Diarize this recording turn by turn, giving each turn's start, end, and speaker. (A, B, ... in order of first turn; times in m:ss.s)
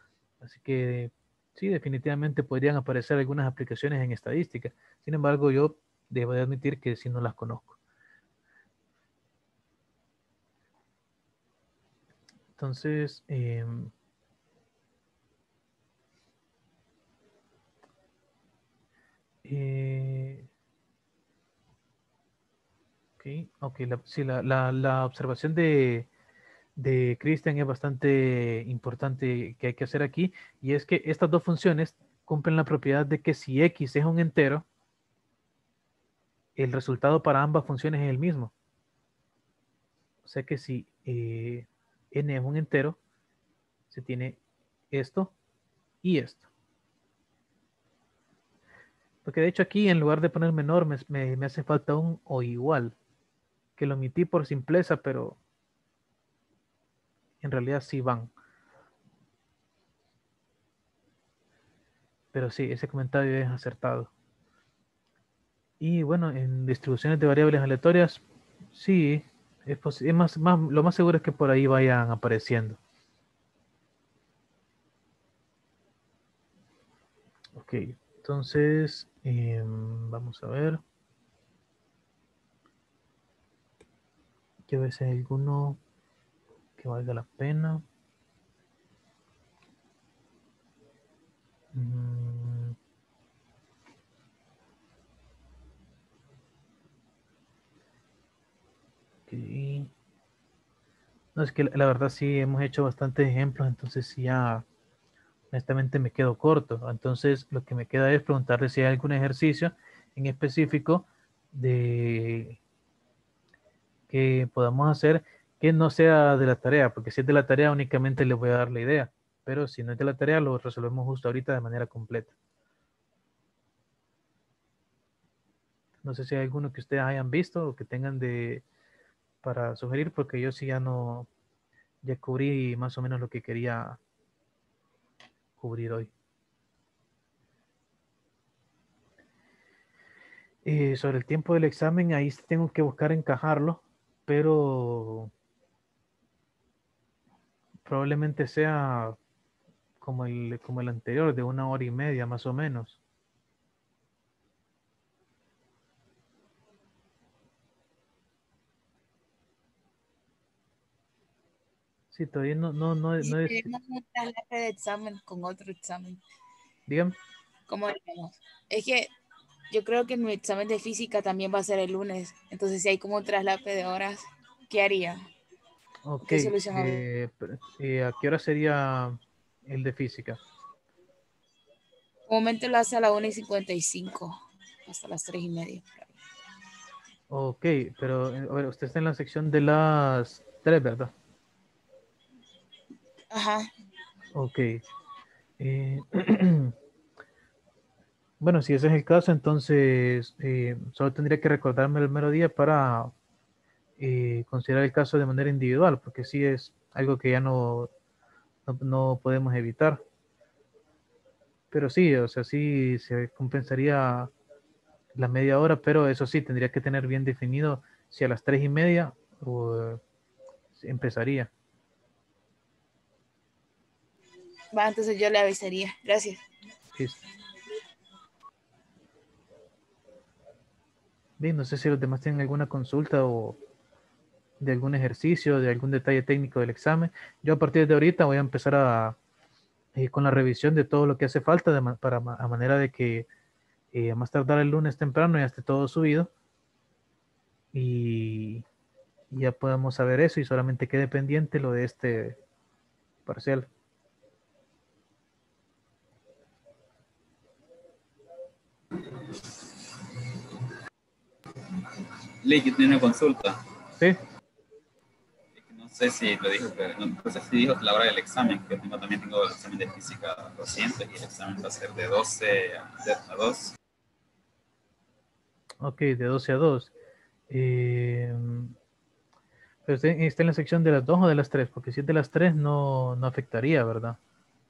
0:00.4-0:07.8 A
0:12.6-0:13.9 A
0:19.4-0:20.5 A
0:23.2-0:26.1 A
0:26.8-0:34.6 A
0:36.6-0:38.5 A
0:40.2-0:43.0 A
0:43.9-0:44.4 A
0:44.9-0:45.3 A
0:46.0-0:46.5 A
0:49.2-0:53.0 A
0:53.8-0:55.4 A
0:57.4-0:58.3 A
1:02.3-1:04.1 A
1:05.8-1:08.2 A
1:08.7-1:12.8 A
1:17.5-1:20.8 A
1:24.7-1:25.8 A
1:26.8-1:27.8 A
1:31.7-1:32.8 A
1:39.3-1:39.9 A
1:41.4-1:44.6 A
1:45.5-1:52.6 A
1:54.1-2:02.3 A
2:06.0-2:08.6 A
2:09.4-2:11.3 A
2:12.0-2:14.0 A
2:15.6-2:16.1 A
2:20.6-2:25.3 A
2:27.8-2:29.2 A
2:30.0-2:33.0 A
2:42.1-2:43.7 A
2:43.2-2:46.2 B
2:46.9-2:47.2 A
2:47.7-2:49.1 B
2:49.7-2:55.2 B
2:56.0-3:00.4 A
2:56.3-2:57.0 B
3:02.3-3:04.4 B
3:04.9-3:06.1 B
3:07.3-3:11.1 A
3:13.3-3:13.7 B
3:14.3-3:14.8 A
3:15.6-3:16.7 A
3:18.4-3:23.1 A
3:24.0-3:27.9 A
3:28.7-3:30.0 A
3:31.7-3:34.3 A
3:35.2-3:40.0 A
3:40.7-3:41.5 A
3:44.7-3:46.4 B
3:47.0-3:47.2 A
3:51.4-3:53.6 A
3:54.6-3:59.2 A
3:59.9-4:03.3 A
4:03.9-4:06.3 A
4:07.7-4:08.6 A
4:09.3-4:12.4 A
4:13.2-4:13.7 A
4:22.4-4:23.6 C
4:25.6-4:33.7 C
4:35.8-4:36.9 A
4:37.5-4:38.7 A
4:39.9-4:44.2 A